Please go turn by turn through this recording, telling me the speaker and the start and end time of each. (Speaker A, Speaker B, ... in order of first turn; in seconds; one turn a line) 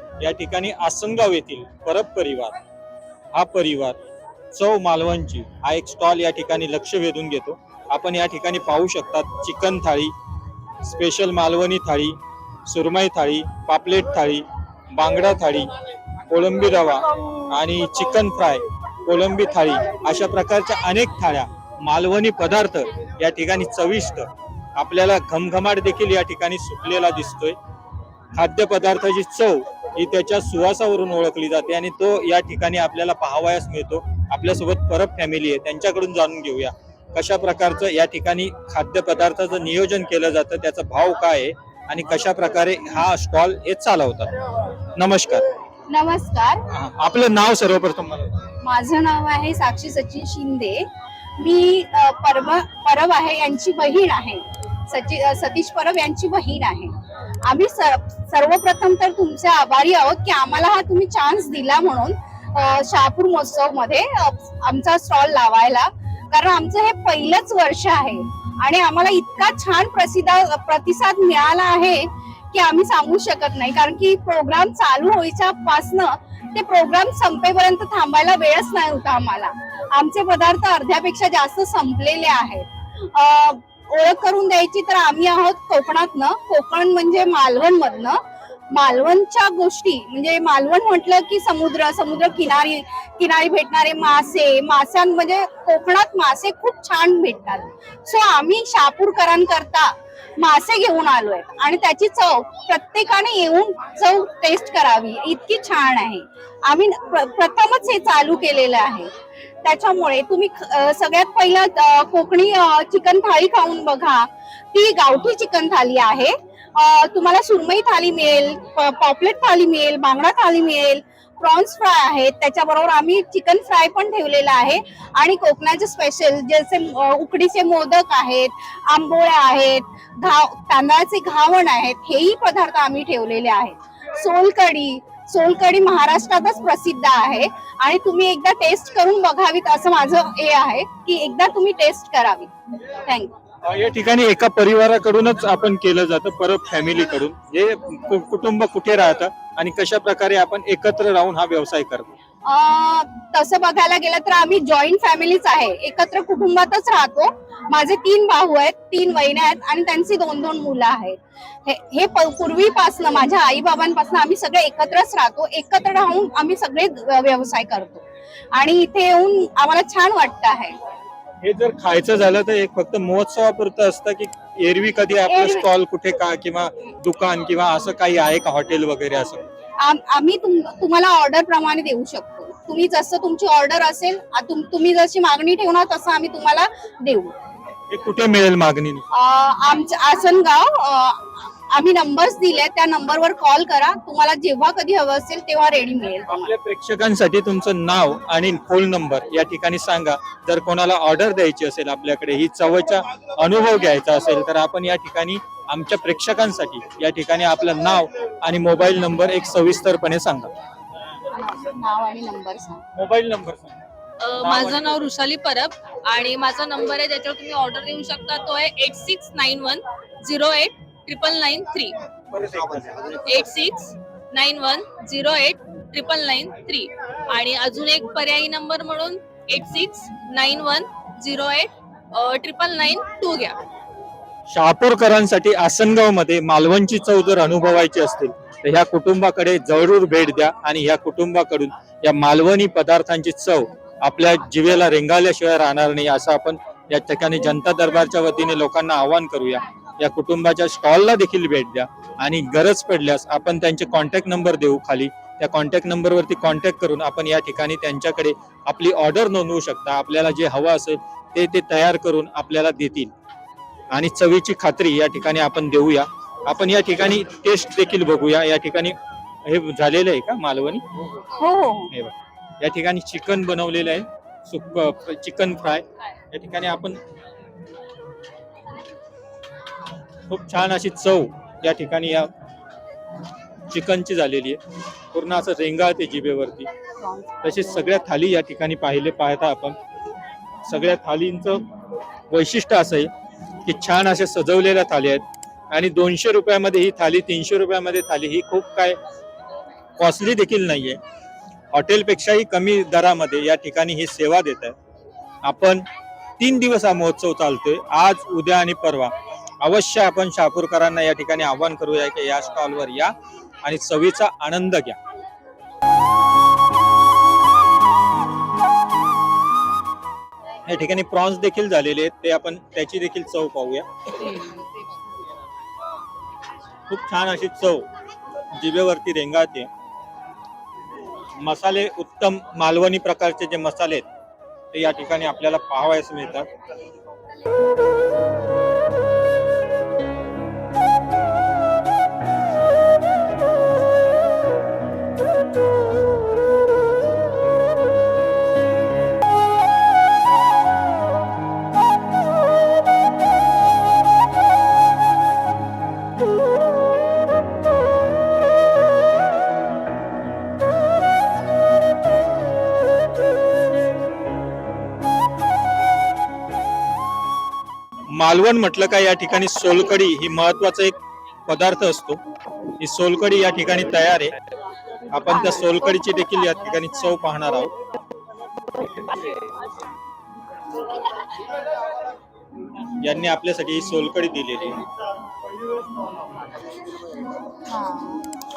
Speaker A: 0.2-2.6
Speaker A: 3.3-4.0
Speaker A: 4.5-10.1
Speaker A: 10.8-15.7
Speaker A: 16.3-27.6
Speaker A: 28.3-45.4
Speaker B: 45.9-46.6
Speaker A: 46.7-48.3
Speaker B: 48.6-88.2
Speaker B: 88.7-143.3
Speaker A: 143.6-152.2
Speaker B: 152.4-170.8
Speaker A: 171.4-179.5
Speaker B: 175.3-175.7
Speaker B: 179.8-187.3
Speaker A: 187.9-189.1
Speaker B: 189.1-196.5
Speaker A: 196.3-210.5
Speaker B: 211.3-212.8
Speaker A: 212.9-213.8
Speaker C: 214.2-221.9
Speaker A: 214.4-215.0
Speaker A: 222.3-223.0
Speaker C: 223.1-233.6
Speaker A: 234.5-263.1
Speaker A: 263.9-270.8
Speaker B: 271.3-271.9
Speaker A: 271.9-277.0
Speaker A: 280.3-282.3
Speaker A: 283.7-284.6
Speaker A: 285.1-286.7
Speaker B: 287.0-288.0
Speaker A: 287.4-289.8
Speaker A: 290.6-291.6
Speaker A: 292.3-293.1
Speaker A: 293.6-299.0
Speaker A: 300.0-301.0
Speaker A: 301.7-304.8
Speaker A: 305.4-305.9
Speaker A: 306.4-315.0
Speaker A: 320.7-324.3
Speaker A: 326.9-327.9
Speaker A: 328.5-329.7
Speaker A: 331.4-334.1
Speaker A: 334.7-336.5
Speaker A: 368.1-372.2
Speaker A: 372.8-374.4
Speaker A: 375.1-377.7
Speaker A: 383.0-384.8
Speaker B: 387.7-388.2